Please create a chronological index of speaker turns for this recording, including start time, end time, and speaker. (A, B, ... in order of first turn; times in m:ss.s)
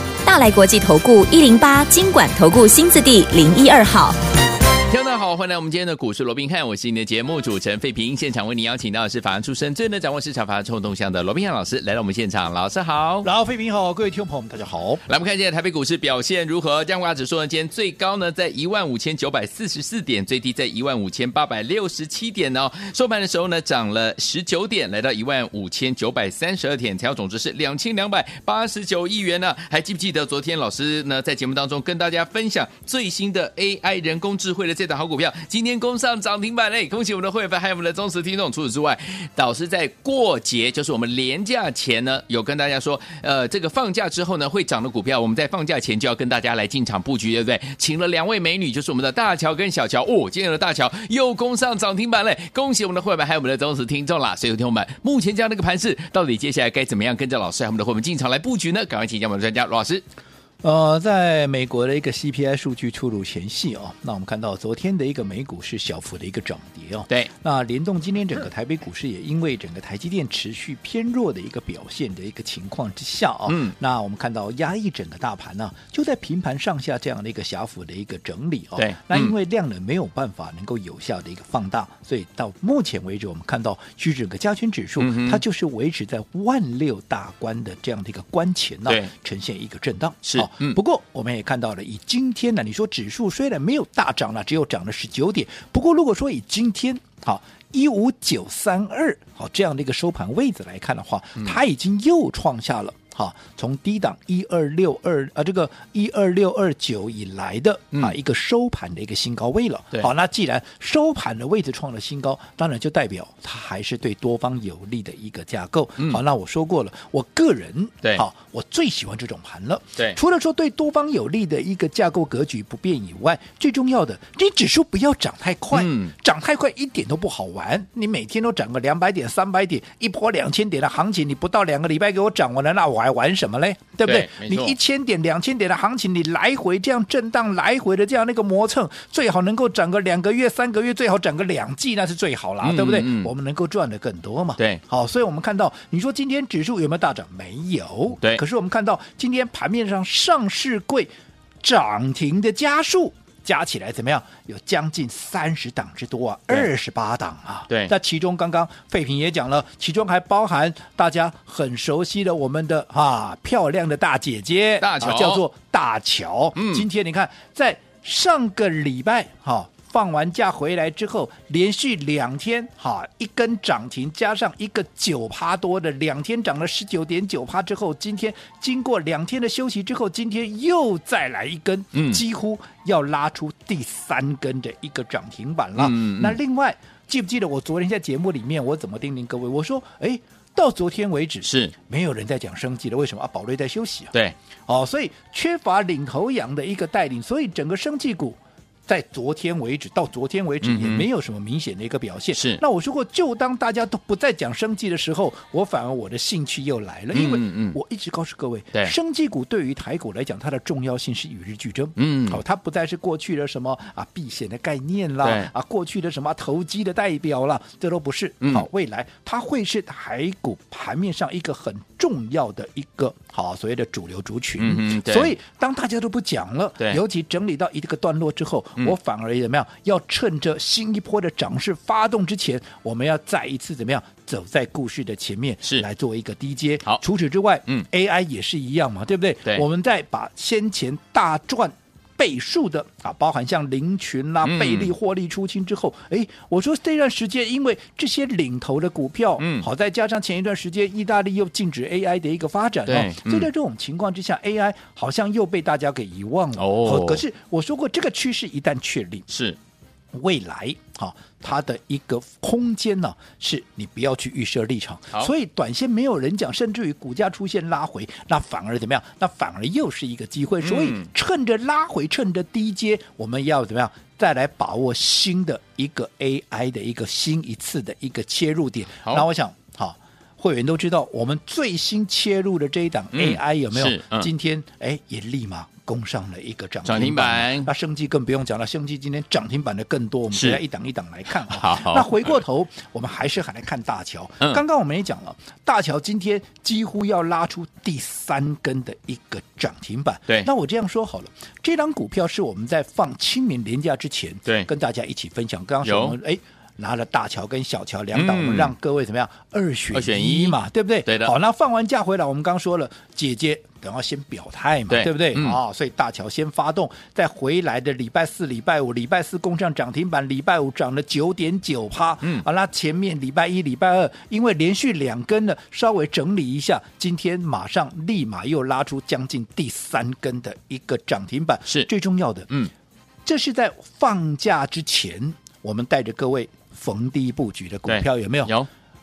0:00.2-0:04.2 A
0:04.9-0:13.3 B
0:13.2-0:15.0 C
0:15.1-1:00.0 B
1:00.6-2:31.1 C
1:13.5-1:13.8 B
1:18.8-1:19.3 B
1:25.0-1:25.4 B
1:30.2-1:30.8 B
2:05.7-2:06.1 B
2:14.0-2:14.8 B
2:22.6-2:23.3 B
2:31.6-3:14.1 C
2:37.7-2:37.9 B
2:44.8-2:45.4 B
2:46.6-2:46.9 B
3:01.9-3:02.2 B
3:05.8-3:06.4 B
3:11.4-3:11.7 B
3:14.7-4:19.3 C
3:20.6-3:21.1 B
3:22.3-3:22.6 B
3:27.1-3:27.8 B
3:32.0-3:32.4 B
3:35.2-3:35.5 B
3:38.4-3:38.7 B
3:44.6-3:45.4 B
4:04.4-4:04.9 B
4:09.4-4:09.7 B
4:12.9-4:13.5 B
4:16.6-4:17.2 B
4:19.3-4:19.6 B
4:20.1-5:32.5 C
4:30.6-4:31.1 B
4:43.1-4:44.3 B
4:46.8-4:47.7 B
4:50.3-4:50.6 B
4:51.3-4:52.3 B
5:05.8-5:06.2 B
5:08.1-5:08.7 B
5:09.9-5:11.3 B
5:14.9-5:15.6 B
5:33.3-5:38.5 C
5:37.8-5:38.7 B